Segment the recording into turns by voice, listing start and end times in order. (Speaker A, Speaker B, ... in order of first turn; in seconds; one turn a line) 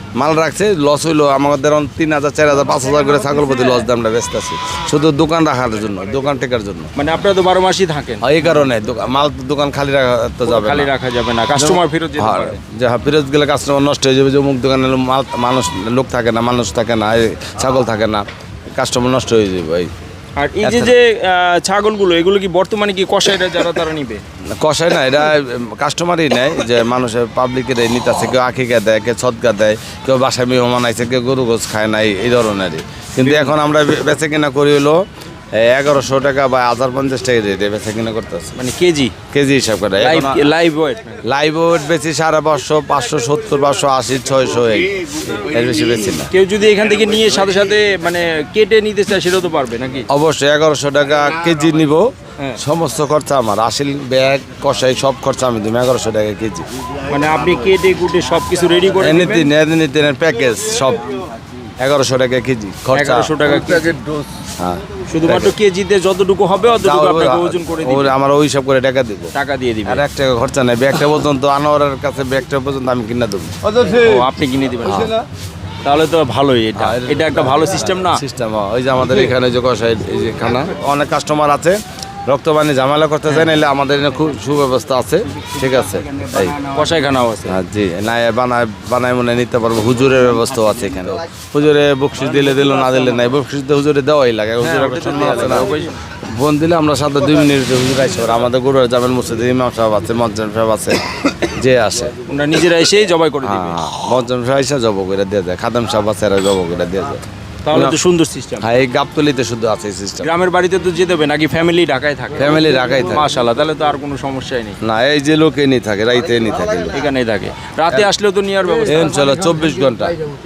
Speaker A: 0.2-6.9
Speaker B: 7.0-8.2
Speaker A: 8.2-10.9
Speaker B: 10.4-12.6
Speaker A: 12.2-19.9
Speaker B: 20.4-24.2
Speaker A: 20.6-20.9
Speaker A: 24.6-35.0
Speaker B: 33.2-33.5
Speaker A: 35.6-38.6
Speaker B: 38.5-39.1
Speaker A: 39.3-40.5
Speaker B: 40.0-41.2
Speaker A: 41.3-46.3
Speaker B: 46.3-50.1
Speaker A: 50.1-56.7
Speaker B: 57.1-59.5
Speaker A: 59.0-61.1
Speaker A: 61.8-63.4
Speaker B: 62.9-64.0
Speaker A: 64.6-65.5
Speaker B: 65.1-68.1
Speaker A: 66.7-69.3
Speaker B: 69.3-70.0
Speaker A: 69.8-73.5
Speaker B: 73.9-75.1
Speaker A: 74.8-75.2
Speaker B: 75.8-78.2
Speaker A: 76.8-86.7
Speaker B: 86.7-87.6
Speaker A: 87.5-102.1
Speaker B: 94.6-95.9
Speaker B: 102.3-103.8
Speaker A: 103.4-108.0
Speaker B: 107.6-108.7
Speaker A: 108.6-110.3
Speaker B: 110.2-114.8
Speaker A: 112.3-113.3
Speaker A: 114.8-117.0
Speaker B: 116.9-119.2
Speaker A: 118.9-120.2